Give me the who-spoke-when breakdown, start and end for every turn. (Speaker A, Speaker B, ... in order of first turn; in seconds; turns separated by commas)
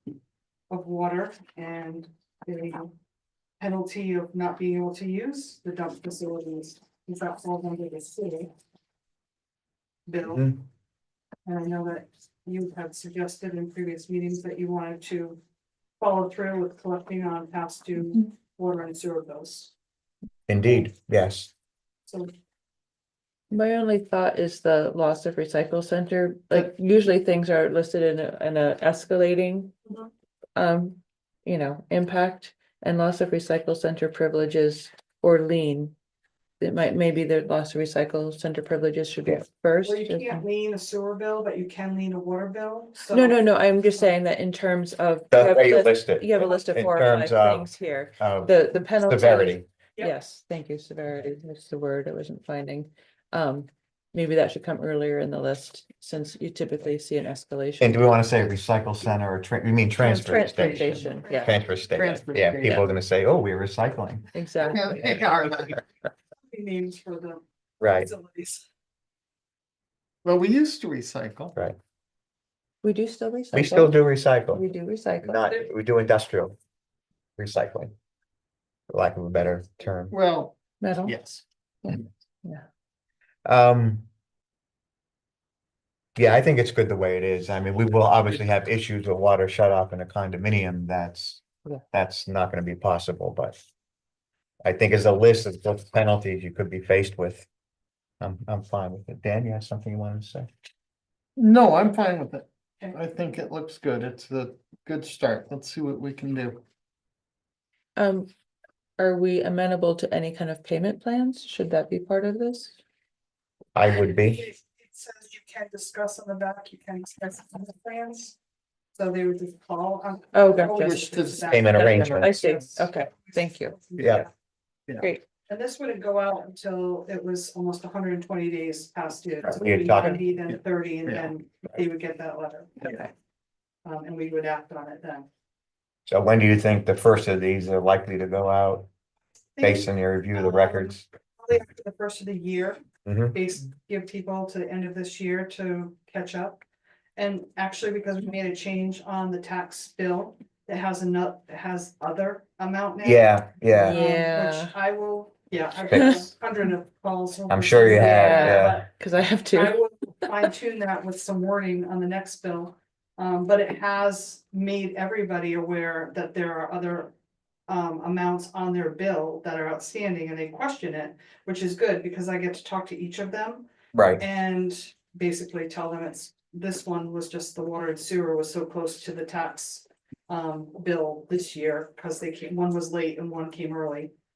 Speaker A: 0.7-2.9, Speaker A: 3.6-8.5, Speaker A: 10.1-10.5, Speaker B: 10.3-10.6, Speaker A: 11.4-15.4, Speaker A: 16.0-19.7, Speaker B: 20.5-21.5, Speaker A: 20.6-20.9, Speaker A: 22.1-22.3, Speaker C: 23.5-29.8, Speaker C: 30.6-35.9, Speaker C: 36.6-40.4, Speaker A: 39.8-43.4, Speaker C: 43.1-58.0, Speaker B: 45.3-49.6, Speaker B: 57.8-64.3, Speaker C: 60.0-61.5, Speaker D: 61.9-62.8, Speaker C: 64.3-65.2, Speaker D: 64.6-65.8, Speaker A: 66.4-68.7, Speaker B: 67.8-68.1, Speaker D: 70.2-71.5, Speaker C: 72.8-74.0, Speaker B: 73.5-74.6, Speaker C: 74.5-75.5, Speaker B: 75.2-76.5, Speaker B: 77.4-77.9, Speaker B: 78.9-80.1, Speaker D: 80.1-81.4, Speaker C: 80.8-81.1, Speaker C: 81.8-82.6, Speaker B: 83.5-84.1, Speaker B: 86.2-93.5, Speaker B: 94.6-97.5, Speaker B: 98.2-100.5, Speaker D: 101.4-106.6, Speaker C: 108.0-108.3, Speaker C: 109.0-112.7, Speaker B: 113.7-114.5, Speaker A: 114.3-118.4, Speaker A: 119.0-122.9, Speaker C: 120.3-121.0, Speaker D: 120.8-121.6, Speaker B: 121.5-122.3, Speaker C: 121.7-123.8, Speaker A: 123.7-124.3, Speaker B: 124.0-124.2, Speaker A: 125.5-132.9, Speaker B: 129.5-130.2, Speaker D: 130.5-131.3, Speaker C: 132.8-133.1, Speaker A: 133.8-135.3, Speaker B: 136.1-138.9, Speaker A: 139.6-142.8, Speaker B: 139.6-141.0, Speaker B: 143.1-143.3, Speaker A: 143.3-146.6, Speaker A: 147.2-158.9, Speaker B: 153.0-154.0, Speaker C: 153.8-154.7, Speaker B: 155.9-156.2, Speaker C: 155.9-156.2, Speaker B: 157.5-158.8, Speaker C: 157.9-160.4, Speaker A: 159.5-167.1, Speaker A: 167.7-173.7, Speaker B: 173.9-174.2, Speaker A: 174.2-184.1